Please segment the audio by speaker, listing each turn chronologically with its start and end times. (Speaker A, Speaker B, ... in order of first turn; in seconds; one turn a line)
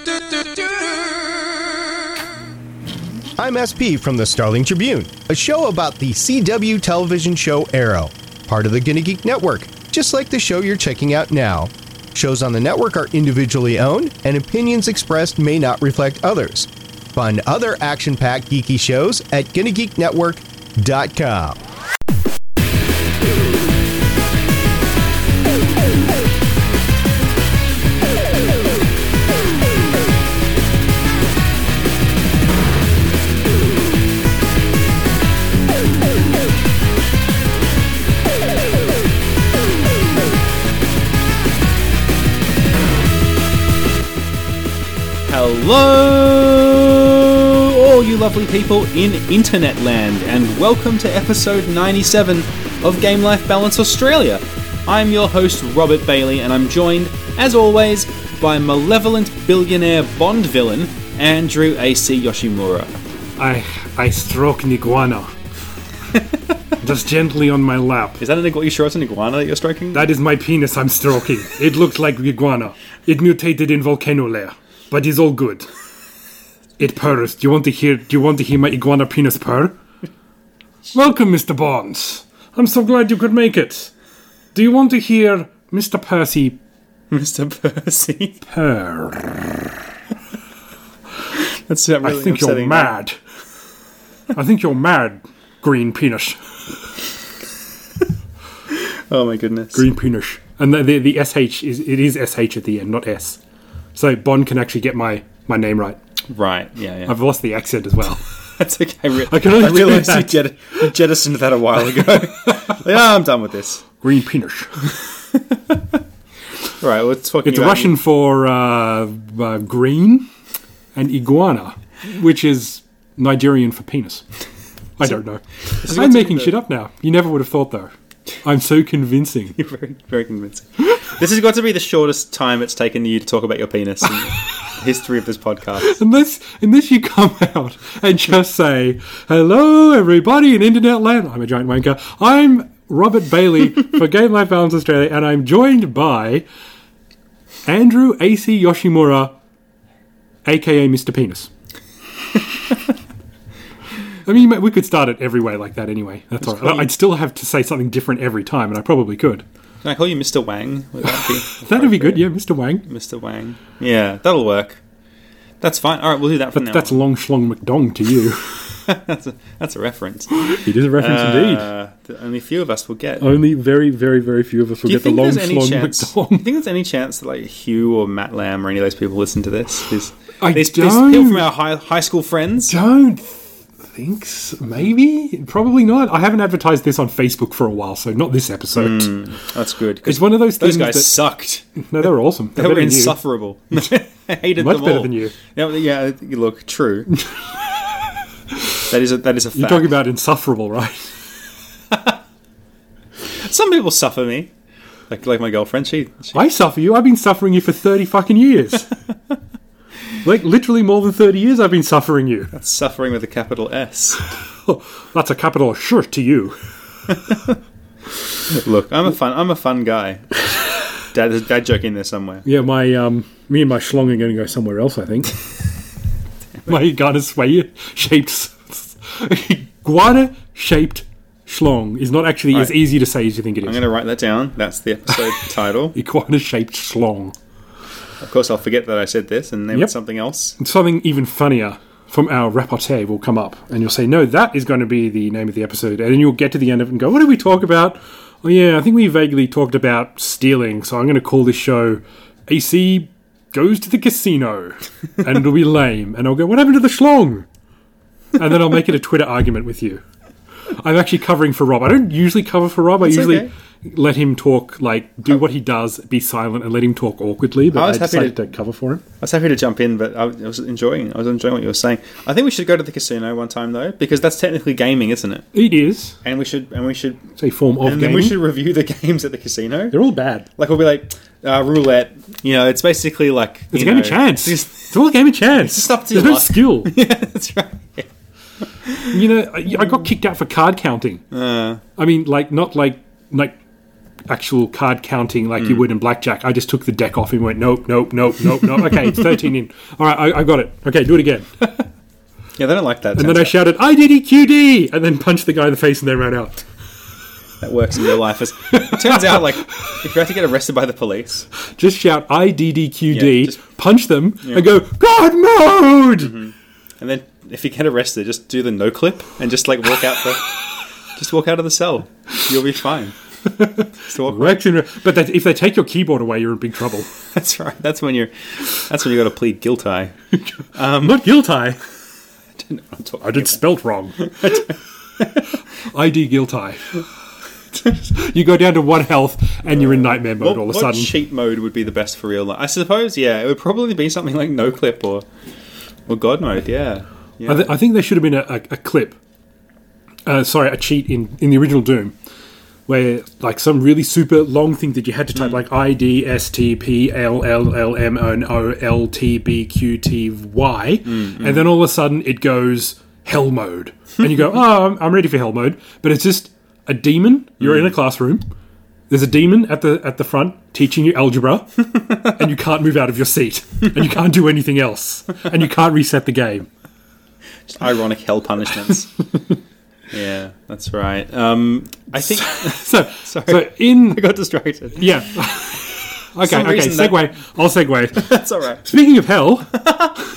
Speaker A: 0.3-1.1
Speaker B: 3.4-21.6
Speaker A: 45.3-62.9
Speaker C: 63.4-65.3
Speaker C: 66.8-68.2
Speaker A: 68.2-70.1
Speaker C: 69.9-75.7
Speaker C: 76.8-79.8
Speaker C: 80.9-83.9
Speaker C: 84.5-86.6
Speaker A: 87.1-88.4
Speaker C: 88.5-89.6
Speaker A: 91.3-92.9
Speaker C: 92.0-93.2
Speaker C: 94.3-96.4
Speaker A: 98.7-99.8
Speaker C: 99.7-103.4
Speaker C: 104.0-106.0
Speaker A: 106.3-107.1
Speaker C: 107.1-108.2
Speaker A: 108.6-113.8
Speaker C: 109.3-110.9
Speaker C: 112.0-112.8
Speaker C: 114.0-114.9
Speaker A: 115.3-116.0
Speaker A: 116.8-117.9
Speaker C: 117.4-120.3
Speaker C: 121.0-124.3
Speaker C: 125.0-127.9
Speaker A: 125.8-126.5
Speaker C: 128.4-129.6
Speaker A: 129.6-136.0
Speaker C: 135.8-146.5
Speaker C: 147.7-149.3
Speaker C: 150.4-151.5
Speaker C: 154.3-159.4
Speaker A: 156.4-156.9
Speaker A: 159.8-162.2
Speaker C: 161.0-162.9
Speaker A: 162.9-164.8
Speaker A: 165.6-167.0
Speaker C: 166.5-168.6
Speaker A: 168.9-173.3
Speaker C: 170.4-171.7
Speaker C: 173.2-176.5
Speaker A: 174.8-182.8
Speaker C: 180.4-181.4
Speaker C: 182.7-189.1
Speaker A: 188.8-191.7
Speaker C: 190.1-191.1
Speaker C: 191.8-193.2
Speaker A: 192.6-197.1
Speaker C: 194.6-195.3
Speaker C: 197.1-197.4
Speaker A: 198.9-199.9
Speaker C: 199.6-201.2
Speaker A: 203.3-204.5
Speaker A: 205.1-206.4
Speaker C: 206.3-208.9
Speaker C: 210.2-212.5
Speaker A: 212.5-214.2
Speaker C: 214.7-216.6
Speaker A: 217.3-217.6
Speaker A: 218.4-220.5
Speaker A: 221.1-222.4
Speaker C: 222.4-225.4
Speaker C: 226.7-233.8
Speaker A: 233.6-235.9
Speaker C: 235.9-237.3
Speaker A: 238.2-240.6
Speaker C: 240.6-257.5
Speaker C: 258.4-260.0
Speaker C: 260.8-269.0
Speaker A: 263.0-263.5
Speaker A: 267.7-268.4
Speaker A: 269.2-275.5
Speaker C: 275.5-276.2
Speaker A: 276.2-277.3
Speaker C: 277.4-278.4
Speaker A: 277.8-280.0
Speaker C: 279.9-280.5
Speaker A: 280.6-284.9
Speaker C: 283.7-286.9
Speaker A: 285.5-288.1
Speaker A: 288.6-289.2
Speaker C: 289.1-291.2
Speaker A: 291.3-291.8
Speaker C: 292.0-293.6
Speaker C: 294.3-301.5
Speaker A: 295.6-295.9
Speaker A: 298.9-299.4
Speaker A: 302.6-303.6
Speaker C: 303.2-306.6
Speaker A: 307.6-311.5
Speaker C: 308.7-309.9
Speaker C: 311.8-316.4
Speaker A: 313.1-313.6
Speaker A: 316.2-320.5
Speaker A: 321.1-323.1
Speaker C: 323.5-327.1
Speaker A: 324.1-324.6
Speaker A: 327.3-330.1
Speaker A: 330.8-331.2
Speaker C: 331.0-331.8
Speaker A: 332.6-333.6
Speaker C: 333.2-334.6
Speaker A: 334.2-335.5
Speaker C: 335.9-337.0
Speaker C: 337.8-341.1
Speaker A: 339.7-345.3
Speaker A: 346.1-347.7
Speaker C: 347.5-349.2
Speaker C: 350.3-352.1
Speaker C: 352.9-368.4
Speaker A: 361.1-361.7
Speaker A: 367.6-367.9
Speaker C: 369.1-376.7
Speaker A: 377.7-379.1
Speaker A: 380.1-385.2
Speaker C: 382.3-384.2
Speaker C: 385.0-389.9
Speaker A: 386.4-387.3
Speaker A: 388.1-388.9
Speaker A: 389.8-390.1